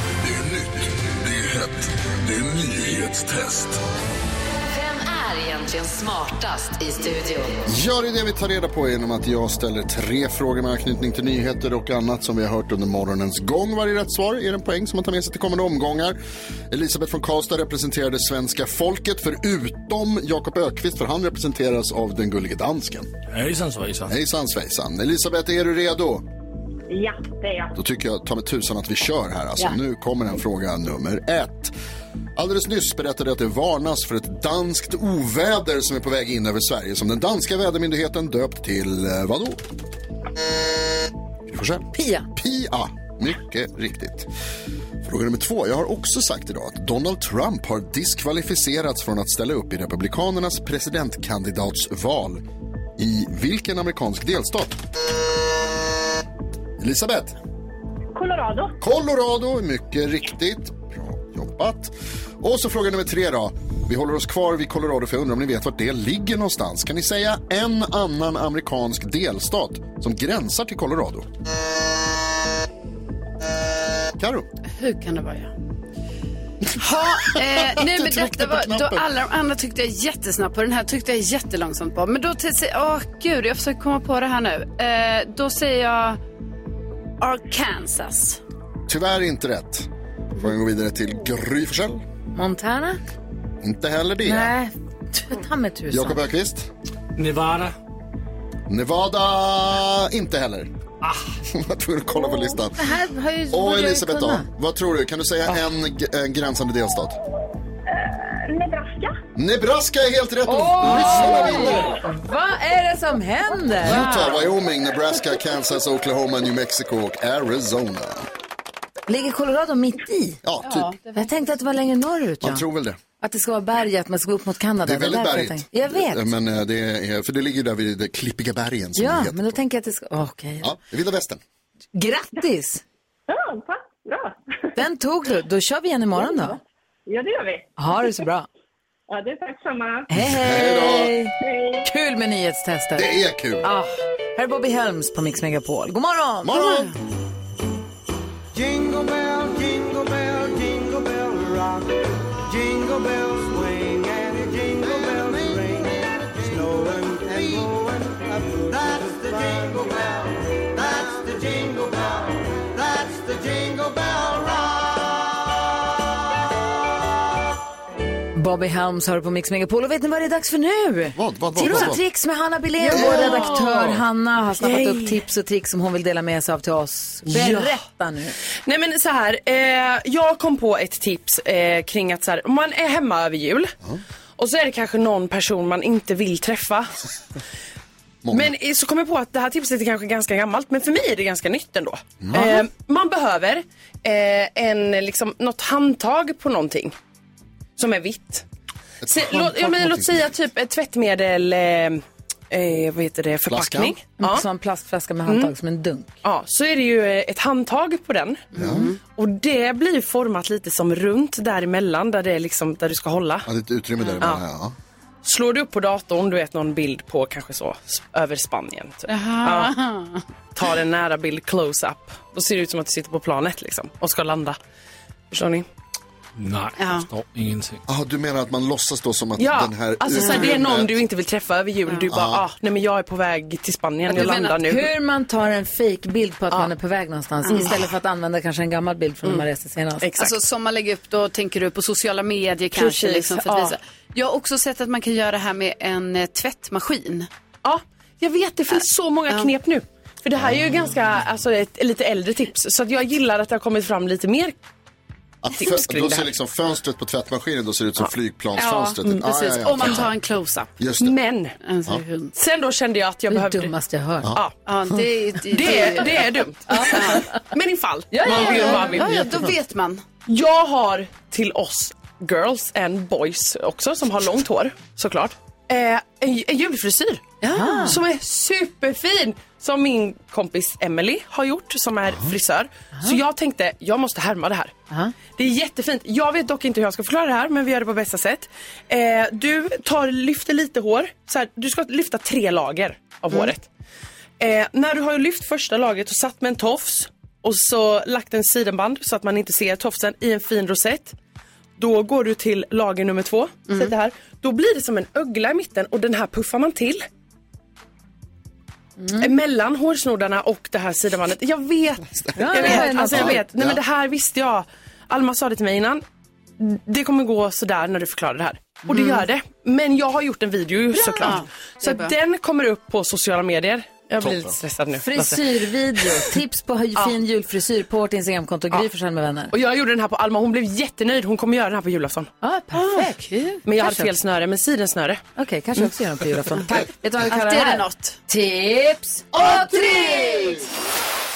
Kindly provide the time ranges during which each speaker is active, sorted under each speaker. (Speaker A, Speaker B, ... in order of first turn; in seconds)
Speaker A: 0.2-3.8
Speaker B: 4.7-7.7
Speaker C: 7.7-16.2, 16.7-23.1, 24.1-26.2, 27.8-31.7, 32.4-39.6, 41.5-44.3, 45.0-52.4, 53.0-54.8, 56.8-57.4, 58.8-71.3, 74.2-74.5, 77.4-79.1, 88.9-92.0, 93.6-94.5, 95.9-96.7, 98.7-100.7, 101.5-103.0, 103.5-107.2, 109.4-112.0, 113.8-118.3, 120.4-120.9, 122.4-123.0, 124.8-129.6, 130.6-131.4, 140.2-141.2, 142.9-143.7, 146.4-146.9, 171.2-172.0, 188.2-188.5, 192.2-192.7, 199.0-200.3, 203.5-204.0, 208.5-208.9, 213.5-214.8, 227.9-231.1, 232.1-232.5, 255.4-260.1, 260.8-261.2, 313.1-313.8, 324.2-324.5, 339.3-340.4
Speaker D: 23.3-24.1, 97.2-97.7, 226.4-227.8
Speaker E: 26.9-27.8, 58.1-58.8, 107.9-109.2, 133.3-134.4, 136.2-137.8, 139.1-140.1, 141.4-141.9
Speaker F: 41.9-42.3, 92.3-93.0, 94.2-96.2, 102.8-104.5, 110.5-114.4, 119.1-120.4, 121.2-122.7, 123.2-126.3, 129.0-130.7, 131.9-132.8, 134.8-136.6, 137.8-138.5, 140.1-146.9, 168.3-178.4, 204.2-206.1, 234.1-240.1, 263.3-264.4, 266.7-267.3, 268.1-269.0, 277.5-278.0, 312.4-313.4, 325.0-329.5, 332.4-334.1, 335.4-340.7
Speaker G: 74.7-75.5, 76.8-86.2, 87.2-88.4, 113.9-114.3, 120.6-121.3, 172.8-174.0, 208.5-209.0, 219.1-220.2, 226.8-227.1, 230.1-230.6, 231.9-232.1, 234.1-234.7, 237.5-237.7, 240.2-247.3, 248.7-249.5, 258.6-260.7, 261.6-262.4, 264.6-267.3, 268.1-270.0, 277.4-278.0, 318.9-319.2, 320.9-322.1, 332.8-333.2, 337.3-338.2
Speaker H: 172.9-173.9, 174.6-175.2, 177.3-177.8, 178.7-183.8, 184.4-186.9, 188.3-196.9, 197.8-198.5, 199.1-204.5, 205.3-205.5, 206.2-208.5, 209.1-213.5, 215.2-219.8, 220.6-224.6, 225.3-225.7, 229.4-234.9, 240.0-240.4, 242.7-243.8, 247.6-254.6, 255.5-256.3, 261.0-261.6, 262.4-263.8, 265.5-269.2, 270.3-284.8, 285.3-293.7, 294.4-301.2, 301.8-307.1, 309.2-316.0, 316.6-326.3, 329.5-332.3, 333.6-335.2